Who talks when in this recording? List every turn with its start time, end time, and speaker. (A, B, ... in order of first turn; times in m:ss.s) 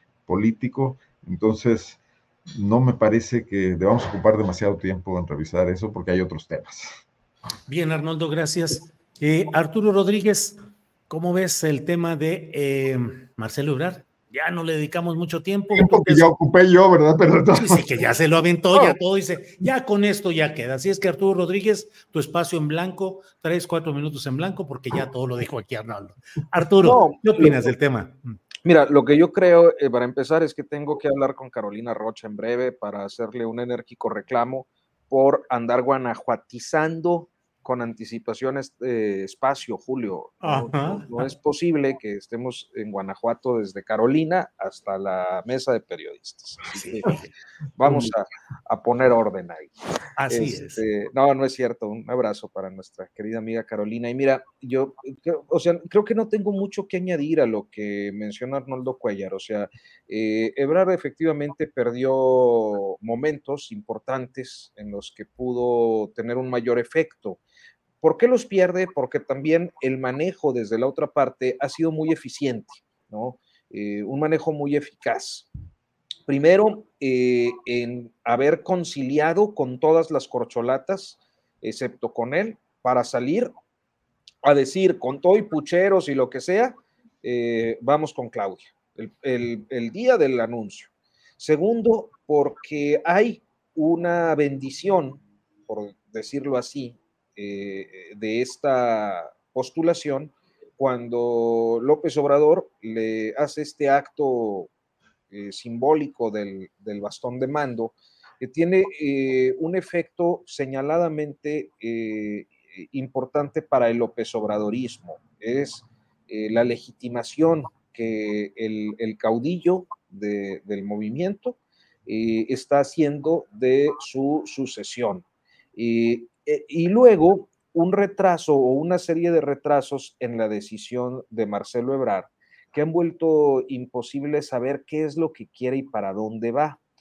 0:00.3-0:02.0 A
0:02.6-0:06.9 A
0:07.7-0:10.6 B
0:11.1-0:16.3 B
0:15.7-0:17.8 A
0:17.5-0:28.3 B
0:26.8-0:27.7 C
0:28.6-0:47.2 C
0:40.4-0:41.2 B
0:46.7-0:47.3 B
0:47.8-0:49.7 C
0:47.8-0:48.1 B
0:50.2-0:50.8 B
0:50.3-1:07.4 C
1:08.0-1:15.5 C
1:16.3-1:23.5 C
1:24.4-1:44.7 C
1:45.3-2:16.8 C